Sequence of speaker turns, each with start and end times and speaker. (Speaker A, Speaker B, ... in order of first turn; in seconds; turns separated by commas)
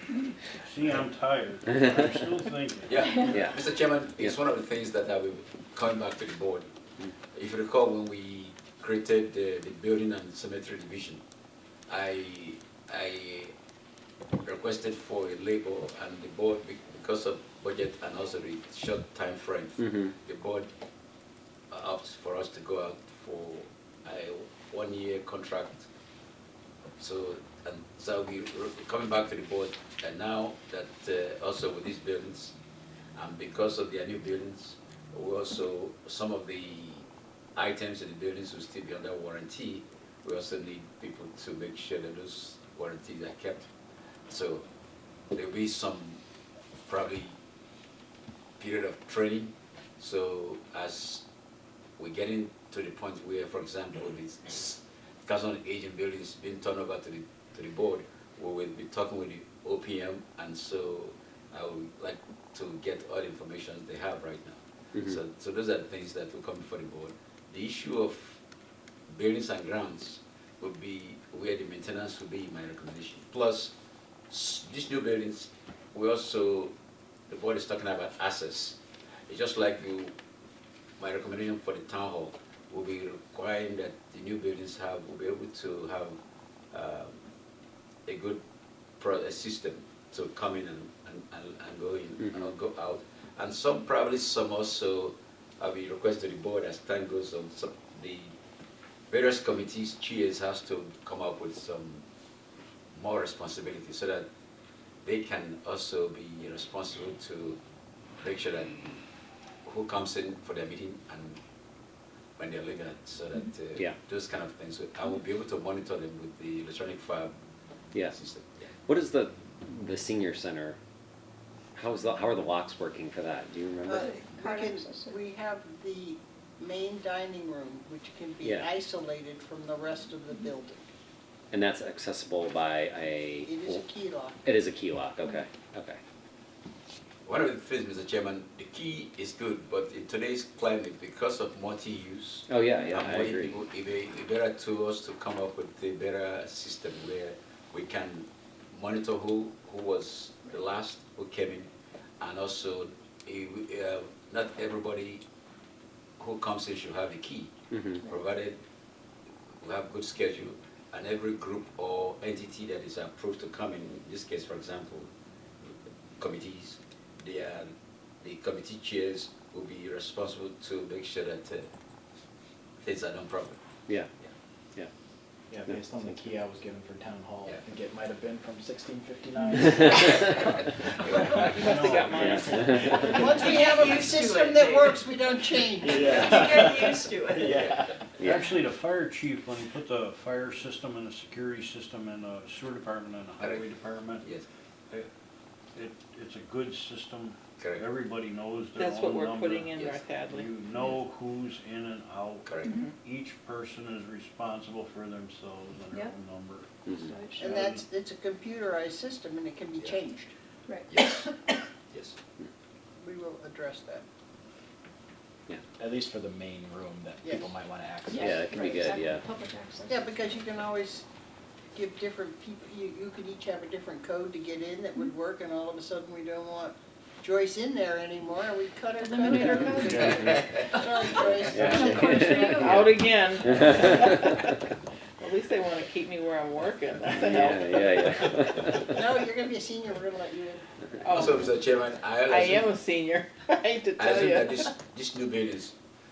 Speaker A: 0.5-3.5, Speaker B: 2.9-6.7, Speaker C: 3.2-3.6, Speaker B: 7.3-11.2, Speaker B: 11.9-13.5, Speaker B: 14.4-20.7, Speaker C: 19.8-20.1, Speaker B: 21.7-25.9, Speaker B: 27.0-32.5, Speaker B: 33.1-37.0, Speaker B: 37.5-43.7, Speaker B: 44.3-44.6, Speaker B: 45.3-46.2, Speaker B: 46.9-47.4, Speaker B: 48.6-51.2, Speaker B: 52.0-68.4, Speaker B: 69.1-73.7, Speaker B: 74.3-76.7, Speaker B: 77.3-80.1, Speaker B: 81.0-86.2, Speaker B: 86.7-87.2, Speaker B: 88.1-88.4, Speaker B: 89.0-98.3, Speaker B: 99.1-102.0, Speaker B: 102.9-104.3, Speaker B: 105.0-107.6, Speaker B: 108.2-108.9, Speaker B: 109.7-111.4, Speaker B: 112.4-117.3, Speaker B: 118.1-118.7, Speaker C: 118.8-120.8, Speaker C: 121.7-124.1, Speaker D: 123.8-130.8, Speaker E: 124.0-125.2, Speaker C: 128.4-128.7, Speaker C: 131.5-133.8, Speaker D: 133.4-134.4, Speaker C: 134.4-136.0, Speaker B: 137.2-151.7, Speaker C: 142.5-143.6, Speaker B: 152.2-155.2, Speaker B: 156.2-157.5, Speaker C: 157.7-158.0, Speaker B: 158.1-158.6, Speaker B: 159.6-165.1, Speaker B: 166.2-167.7, Speaker B: 168.2-171.7, Speaker B: 172.8-173.6, Speaker F: 175.5-181.7, Speaker C: 175.7-176.2, Speaker E: 179.4-179.7, Speaker C: 179.7-180.1, Speaker C: 181.3-183.1, Speaker A: 181.4-183.2, Speaker G: 181.7-182.3, Speaker D: 182.9-186.1, Speaker F: 183.0-183.3, Speaker B: 183.3-184.8, Speaker G: 183.4-183.9, Speaker F: 185.8-188.0, Speaker B: 186.0-187.8, Speaker A: 188.2-194.2, Speaker C: 188.2-188.4, Speaker B: 193.4-194.4, Speaker A: 195.7-207.8, Speaker B: 197.6-197.8, Speaker G: 198.8-200.5, Speaker B: 199.7-200.0, Speaker B: 202.4-202.8, Speaker E: 202.6-202.9, Speaker G: 202.7-202.9, Speaker C: 206.8-207.1, Speaker E: 206.9-207.5, Speaker D: 207.4-210.3, Speaker E: 210.7-211.0, Speaker B: 210.9-211.2, Speaker D: 213.0-214.0, Speaker F: 215.8-218.5, Speaker D: 217.2-217.5, Speaker E: 218.1-220.3, Speaker C: 218.2-219.2, Speaker D: 219.8-221.0, Speaker D: 221.7-232.8, Speaker E: 229.0-230.4, Speaker A: 229.7-230.4, Speaker E: 231.0-232.9, Speaker C: 231.5-232.9, Speaker G: 232.5-234.6, Speaker C: 233.5-234.2, Speaker G: 235.2-238.3, Speaker C: 237.1-238.9, Speaker D: 238.8-241.1, Speaker G: 241.0-241.5, Speaker B: 241.2-242.7, Speaker G: 242.2-244.7, Speaker B: 244.0-245.7